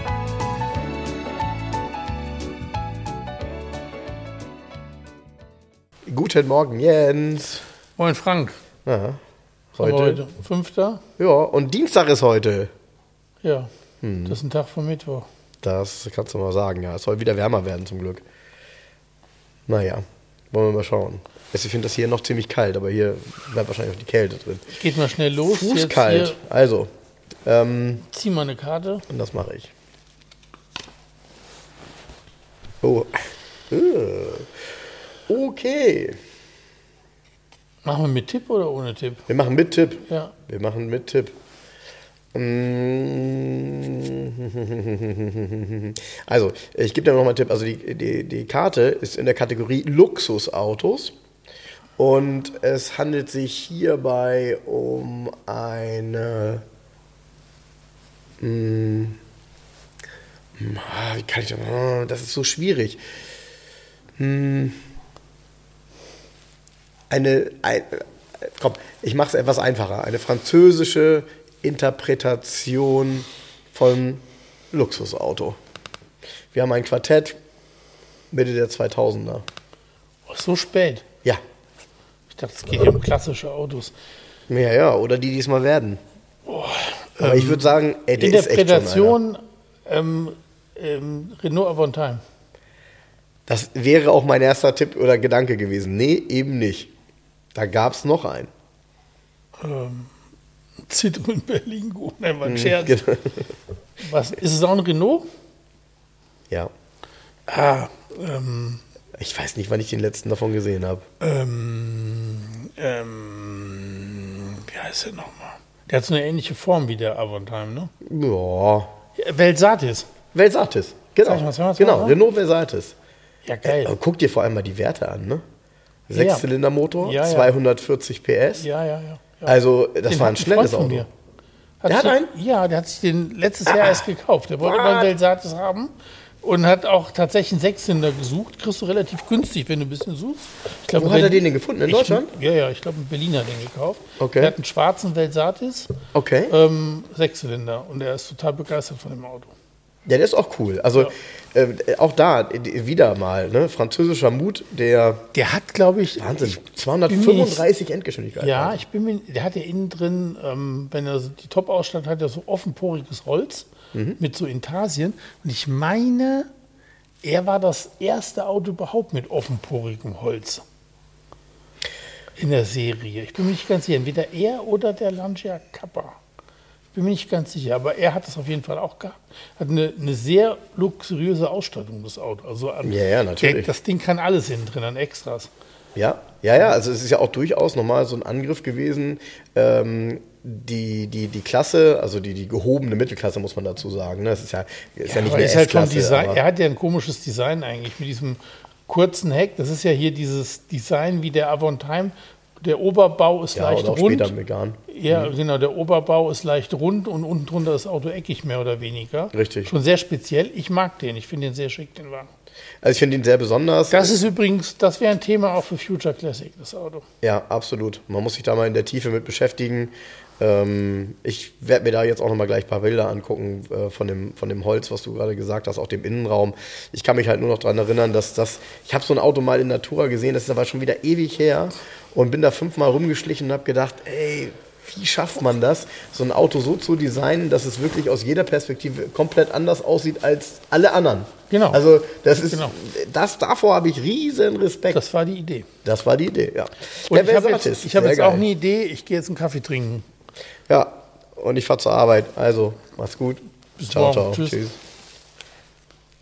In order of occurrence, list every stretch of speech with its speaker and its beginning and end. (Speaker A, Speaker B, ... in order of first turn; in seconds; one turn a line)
Speaker A: 6.1-7.6
Speaker B: 8.0-8.6
Speaker A: 8.8-9.2
Speaker A: 9.7-10.2
Speaker B: 9.8-11.0
Speaker A: 11.2-12.7
Speaker B: 13.4-13.7
Speaker A: 14.0-14.4
Speaker B: 14.2-15.3
Speaker A: 15.6-18.2
Speaker A: 19.7-24.7
Speaker B: 24.7-26.4
Speaker A: 25.4-26.9
Speaker A: 27.4-28.0
Speaker B: 28.0-29.0
Speaker A: 29.1-29.7
Speaker A: 32.8-34.5
Speaker A: 35.3-36.2
Speaker B: 37.8-39.2
Speaker A: 39.3-41.3
Speaker B: 40.1-40.3
Speaker A: 42.3-51.1
Speaker A: 52.0-56.6
Speaker A: 58.4-59.2
Speaker A: 60.6-63.0
Speaker A: 64.2-64.8
Speaker A: 67.1-75.6
Speaker A: 76.5-77.4
Speaker A: 78.3-79.4
Speaker B: 80.3-81.0
Speaker B: 82.3-83.9
Speaker A: 84.5-86.0
Speaker B: 86.5-92.2
Speaker A: 87.2-89.2
Speaker A: 93.5-96.9
Speaker A: 97.5-98.5
Speaker B: 99.6-100.1
Speaker B: 100.9-103.0
Speaker A: 102.4-103.5
Speaker B: 104.0-105.2
Speaker B: 107.5-108.8
Speaker A: 109.2-111.0
Speaker B: 111.2-117.9
Speaker A: 118.0-118.9
Speaker B: 119.2-120.1
Speaker A: 120.3-122.9
Speaker B: 121.2-122.2
Speaker B: 123.5-124.0
Speaker A: 123.6-125.4
Speaker A: 126.1-128.7
Speaker B: 126.1-126.5
Speaker B: 127.0-127.5
Speaker B: 128.6-131.1
Speaker A: 129.4-131.1
Speaker B: 131.8-145.9
Speaker A: 131.9-132.3
Speaker A: 133.7-134.0
Speaker A: 134.6-135.1
Speaker A: 140.9-142.3
Speaker A: 144.2-144.5
Speaker A: 146.1-146.6
Speaker B: 146.5-149.5
Speaker A: 150.1-155.2
Speaker B: 155.3-157.6
Speaker A: 156.2-158.8
Speaker B: 158.4-166.5
Speaker A: 163.9-164.2
Speaker B: 167.2-170.6
Speaker B: 172.3-176.2
Speaker B: 176.9-185.5
Speaker A: 182.8-183.7
Speaker A: 185.9-196.4
Speaker B: 195.1-204.3
Speaker A: 203.5-205.3
Speaker B: 204.9-212.3
Speaker A: 209.3-209.7
Speaker A: 212.8-214.2
Speaker B: 213.9-217.0
Speaker A: 217.2-245.0
Speaker B: 241.5-241.8
Speaker B: 242.5-242.8
Speaker B: 244.9-245.7
Speaker A: 245.8-248.4
Speaker B: 247.1-250.0
Speaker A: 250.7-254.8
Speaker B: 253.8-254.6